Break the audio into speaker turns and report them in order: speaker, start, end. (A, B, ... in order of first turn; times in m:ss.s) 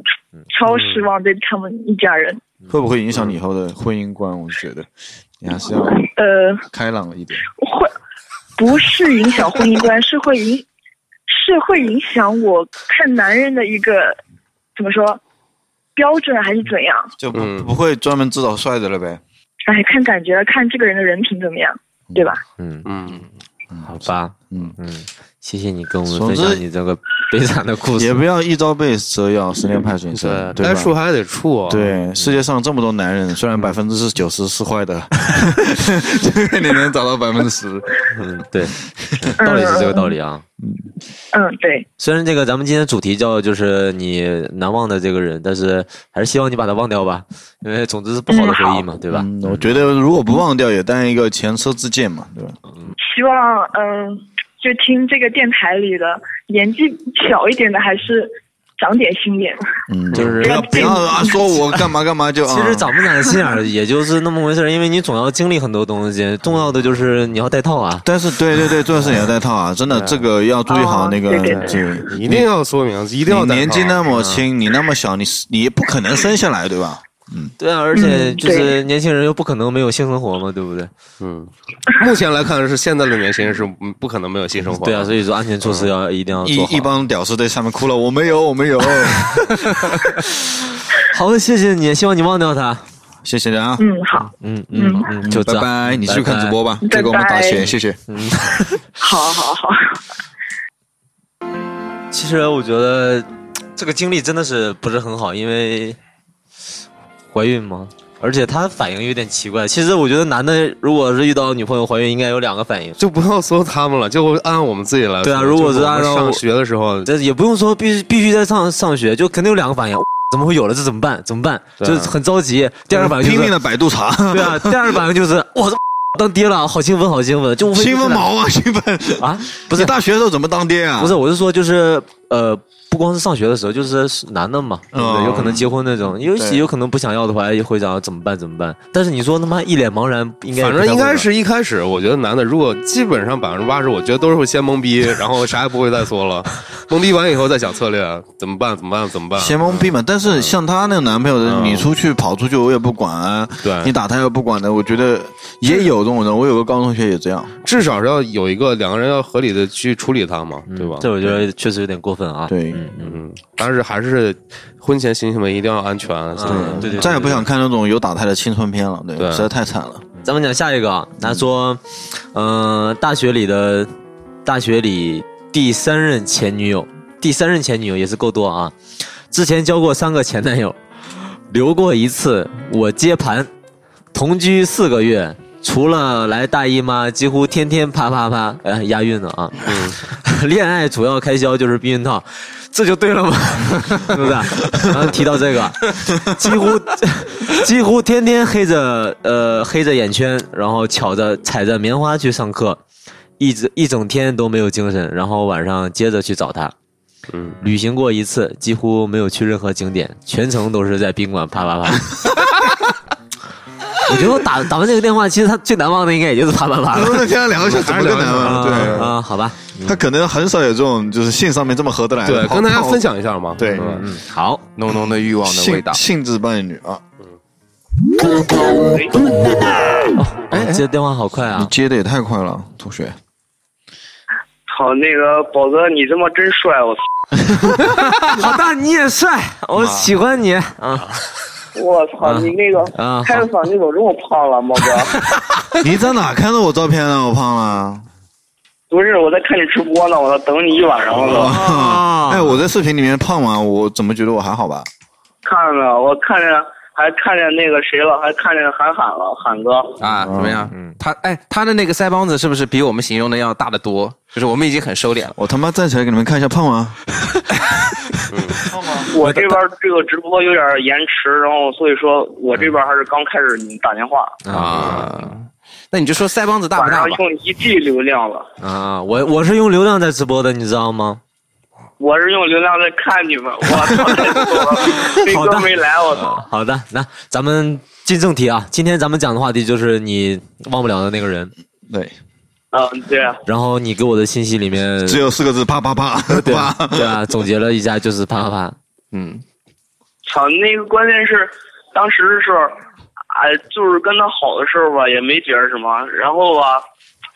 0:00.5-0:02.4 A
0:02.7-0:04.9 B
0:05.4-0:06.0 B
0:06.0-0:06.6 A
0:06.7-0:07.4 B
0:07.6-0:07.9 A
0:08.6-0:10.6 A
0:11.3-0:14.2 A
0:14.8-0:15.2 A
0:16.0-0:17.1 A
0:17.2-0:19.2 B
0:17.3-0:17.7 C
0:19.6-0:22.4 A
0:22.6-0:22.9 D
0:22.8-0:23.3 C
0:23.7-0:24.7 B
0:23.9-0:28.2 D
0:26.1-0:26.6 B
0:28.0-0:30.9 B
0:30.1-0:31.9 C
0:31.7-0:38.0 B
0:38.1-0:40.4 D
0:39.0-0:39.3 B
0:39.4-0:40.1 A
0:41.3-0:41.9 A
0:42.0-0:49.8 D
0:48.3-0:48.8 A
0:49.1-0:52.6 B
0:53.0-0:59.6 A
0:59.9-1:02.9 B
1:00.1-1:01.0 D
1:00.4-1:01.3 A
1:02.4-1:08.0 D
1:08.0-1:12.5 B
1:09.9-1:10.2 C
1:10.7-1:11.9 A
1:11.7-1:14.0 C
1:13.2-1:17.5 B
1:14.1-1:14.4 D
1:17.6-1:20.9 D
1:17.9-1:18.7 A
1:21.2-1:25.1 C
1:24.7-1:26.9 D
1:26.4-1:29.5 B
1:31.1-1:32.8 D
1:33.2-1:33.8 B
1:33.8-1:35.1 A
1:34.4-1:36.6 D
1:35.2-1:38.0 B
1:36.8-1:37.6 A
1:38.1-1:38.8 D
1:39.0-1:40.0 A
1:42.1-1:46.0 D
1:47.3-1:53.0 D
1:53.0-1:57.1 C
1:55.2-1:56.4 D
1:57.0-2:03.5 D
2:01.8-2:02.1 C
2:02.9-2:05.0 B
2:04.3-2:08.3 D
2:07.7-2:11.2 B
2:09.2-2:09.9 D
2:11.0-2:21.3 D
2:14.9-2:15.7 B
2:16.3-2:16.6 B
2:20.6-2:30.5 C
2:29.3-2:37.5 B
2:31.4-2:31.9 C
2:33.6-2:33.9 C
2:37.6-2:41.4 C
2:40.7-2:43.2 D
2:42.5-2:42.8 B
2:43.0-2:47.4 C
2:46.3-2:47.4 D
2:46.4-2:50.0 B
2:49.2-2:49.5 C
2:50.2-2:51.8 D
2:52.3-2:53.9 D
2:54.4-2:58.8 D
2:59.3-3:00.8 D
3:01.5-3:03.5 D
3:04.1-3:22.8 D
3:09.6-3:10.0 C
3:23.4-3:26.7 D
3:27.3-3:27.6 C
3:27.6-3:32.1 D
3:34.0-3:37.3 D
3:36.9-3:39.1 B
3:37.6-3:39.1 C
3:38.4-3:40.0 D
3:39.8-3:43.0 B
3:42.2-3:44.0 C
3:43.6-3:44.0 B
3:43.7-3:44.6 D
3:44.8-3:46.0 E
3:45.4-3:47.0 B
3:48.8-3:49.1 F
3:50.2-3:51.7 D
3:51.5-3:53.2 B
3:54.7-3:57.0 F
3:58.1-4:01.1 D
3:59.8-4:00.1 B
4:01.7-4:05.1 F
4:02.2-4:03.5 D
4:05.8-4:08.1 B
4:08.9-4:11.5 F
4:11.2-4:14.9 B
4:11.4-4:12.6 D
4:15.4-4:20.0 F
4:20.0-4:25.3 E
4:20.2-4:20.7 B
4:25.3-4:27.0 B
4:28.3-4:28.6 C
4:28.7-4:29.1 B
4:29.1-4:34.4 F
4:29.2-4:29.6 D
4:34.4-4:35.0 D
4:34.5-4:37.2 E
4:34.7-4:35.0 C
4:36.7-4:38.5 F
4:38.6-4:41.2 D
4:42.0-4:46.4 F
4:45.1-4:51.5 D
4:51.9-4:52.1 B
4:52.7-4:53.4 F
4:53.4-4:55.2 D
4:55.0-4:57.2 B
4:56.3-4:58.8 D
4:59.1-4:59.4 E
5:00.2-5:02.8 F
5:03.3-5:06.8 F